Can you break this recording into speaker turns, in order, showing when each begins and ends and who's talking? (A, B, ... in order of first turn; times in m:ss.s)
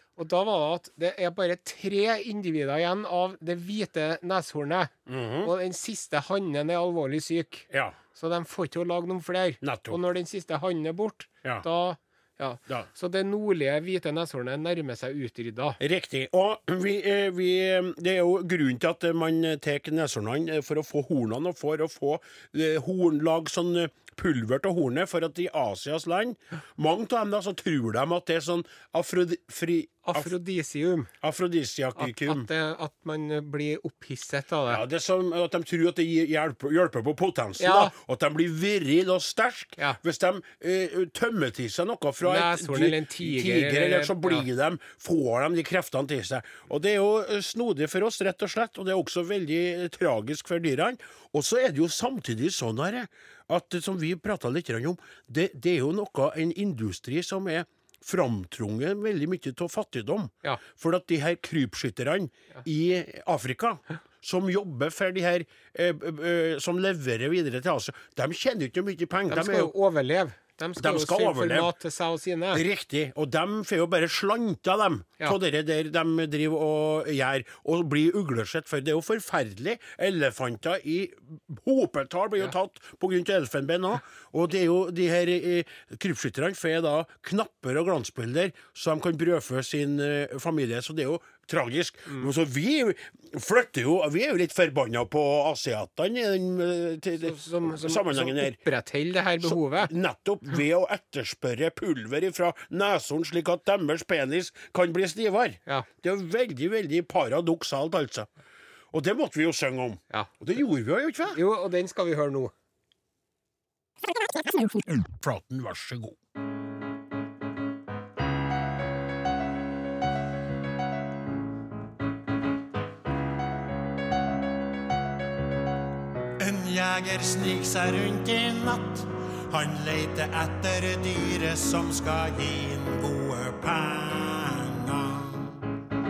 0:00.2-0:04.9 A
0:05.1-0:05.5 B
0:05.4-0:15.8 A
0:07.7-0:08.0 B
0:09.6-0:10.0 B
0:15.8-0:30.3 B
0:30.0-0:31.1 A
0:31.2-0:32.5 B
0:32.0-0:34.8 A
0:34.7-1:09.7 B
0:37.6-0:37.9 A
0:42.2-0:44.4 A
1:09.3-1:12.6 A
1:10.8-1:11.7 B
1:12.5-1:38.6 B
1:37.2-1:39.9 A
1:39.4-1:48.3 B
1:48.9-1:51.4 B
1:51.3-1:52.5 A
1:55.0-1:56.2 B
2:06.4-2:15.6 B